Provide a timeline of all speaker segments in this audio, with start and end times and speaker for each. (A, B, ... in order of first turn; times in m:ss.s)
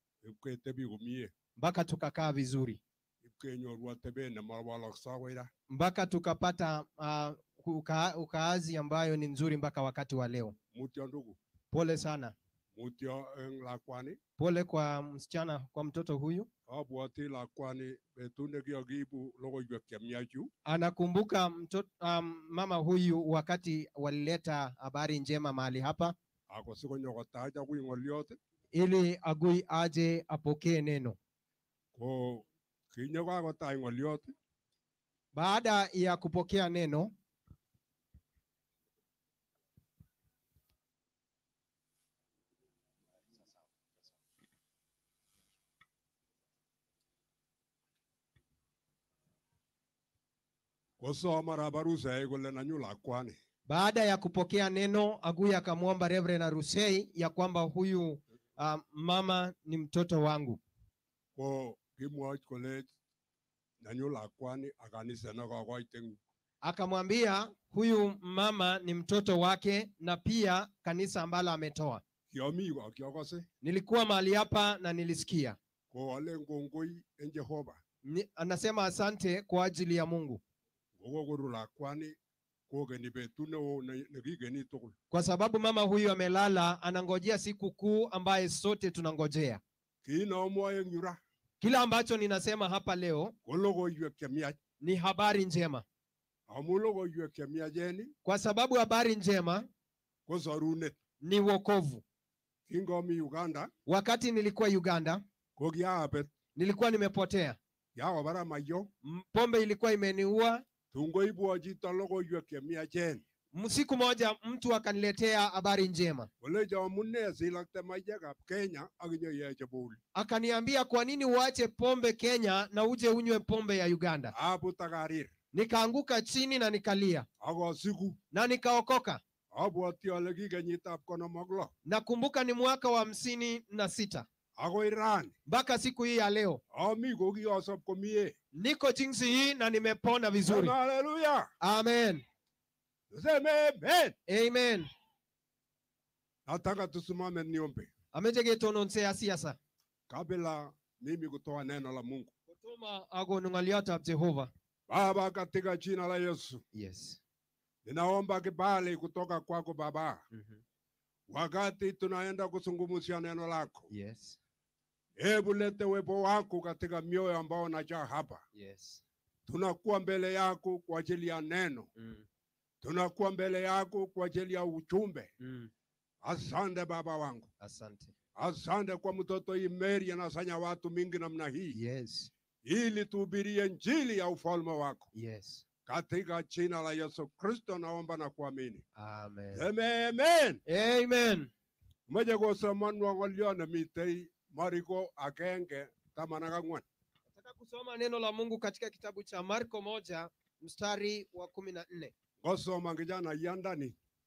0:00.2-0:01.3 A
0:01.6-0:02.8 B
0:03.2-0:05.5 A
0:05.7-0:10.6 B
0:10.7-0:11.4 A
0:11.7-0:12.3 B
0:12.7-0:14.2 A
0:14.4-0:16.5 B
0:16.7-0:20.5 A
0:20.6-0:26.2 B
0:26.5-0:28.4 A
0:28.7-0:31.2 B
0:31.9-0:34.3 A
0:35.3-0:37.1 B
0:51.0-0:53.4 A
0:53.7-1:00.6 B
1:01.4-1:02.9 A
1:03.8-1:06.2 A
1:06.6-1:12.0 B
1:12.3-1:13.4 A
1:13.6-1:15.6 B
1:15.9-1:17.8 A
1:18.0-1:20.4 B
1:21.0-1:22.2 A
1:22.7-1:24.9 A
1:25.1-1:29.6 B
1:30.0-1:31.2 A
1:31.6-1:33.3 B
1:33.4-1:34.6 A
1:34.8-1:35.8 B
1:36.5-1:38.1 A
1:38.2-1:39.7 B
1:40.3-1:41.0 A
1:41.2-1:42.0 B
1:42.7-1:43.7 A
1:43.9-1:45.2 B
1:45.6-1:46.3 A
1:46.6-1:47.6 B
1:47.9-1:48.9 A
1:49.0-1:50.6 B
1:50.9-1:53.2 A
1:53.5-1:56.3 B
1:56.4-2:00.0 A
2:00.1-2:04.3 B
2:04.3-2:05.3 A
2:05.5-2:07.3 B
2:07.4-2:08.2 A
2:08.3-2:09.2 B
2:09.5-2:11.7 A
2:11.8-2:14.2 B
2:14.6-2:15.3 A
2:15.5-2:16.6 B
2:16.7-2:18.3 A
2:18.5-2:20.7 B
2:20.4-2:21.5 A
2:21.6-2:22.2 B
2:23.1-2:24.2 A
2:24.3-2:24.9 B
2:26.4-2:27.9 A
2:28.1-2:29.6 B
2:30.1-2:32.3 A
2:32.5-2:34.5 B
2:34.9-2:36.6 A
2:36.7-2:37.2 B
2:37.8-2:40.2 A
2:40.3-2:40.6 B
2:41.3-2:43.9 A
2:43.9-2:44.4 B
2:45.2-2:48.4 A
2:48.5-2:49.0 B
2:49.5-2:51.9 A
2:52.0-2:52.2 B
2:52.8-2:55.3 A
2:55.4-2:55.7 B
2:56.2-2:57.5 A
2:57.6-2:58.1 B
2:58.4-3:01.8 A
3:01.7-3:02.3 B
3:02.6-3:05.1 A
3:05.1-3:05.6 B
3:05.9-3:08.8 A
3:09.0-3:09.6 B
3:09.5-3:10.6 A
3:10.7-3:11.5 B
3:12.1-3:16.8 A
3:17.3-3:22.1 B
3:22.4-3:23.9 A